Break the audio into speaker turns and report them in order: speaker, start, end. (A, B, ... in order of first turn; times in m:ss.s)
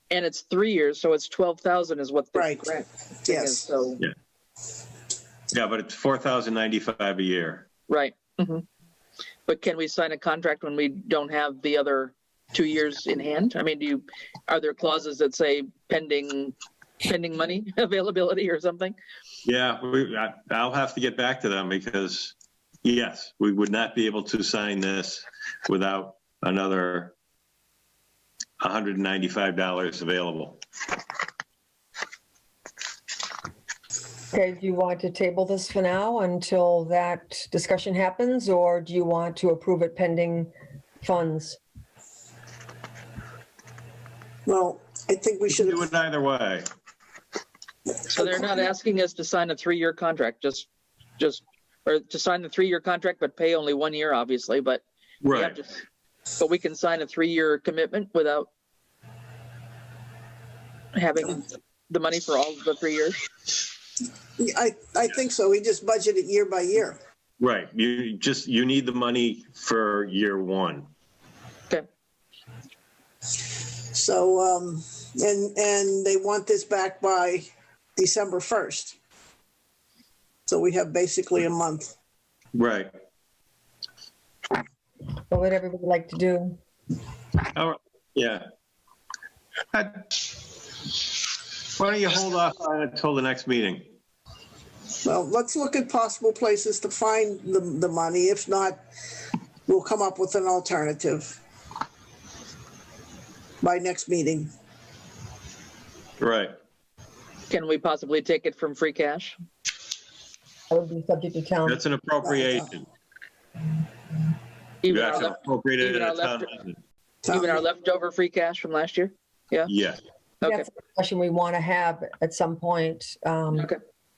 0:00.1-0:04.0 A
0:02.4-0:02.7 B
0:03.3-0:03.7 B
0:05.5-0:07.7 C
0:07.9-0:08.6 A
0:09.5-0:19.0 A
0:19.4-0:27.1 C
0:28.6-0:30.6 C
0:34.3-0:41.6 D
0:44.5-0:45.8 B
0:45.6-0:46.7 C
0:48.1-0:50.7 A
0:51.2-0:55.7 A
0:55.2-0:55.6 C
0:56.4-0:58.5 A
1:00.9-1:03.2 A
1:04.4-1:07.0 B
1:07.4-1:10.9 C
1:13.9-1:19.0 B
1:20.5-1:21.9 B
1:22.5-1:22.9 C
1:25.3-1:26.6 D
1:27.5-1:28.5 C
1:29.7-1:30.2 C
1:31.8-1:33.9 C
1:35.0-1:38.8 B
1:39.7-1:41.4 B
1:43.6-1:44.5 B
1:46.2-1:46.6 C
1:47.5-1:49.4 A
1:50.7-1:51.8 D
1:51.6-1:52.8 C
1:54.8-1:56.5 A
1:54.9-1:56.8 C
1:57.2-1:57.6 B
1:57.3-1:59.7 A
1:59.7-2:00.0 C
2:00.4-2:03.7 D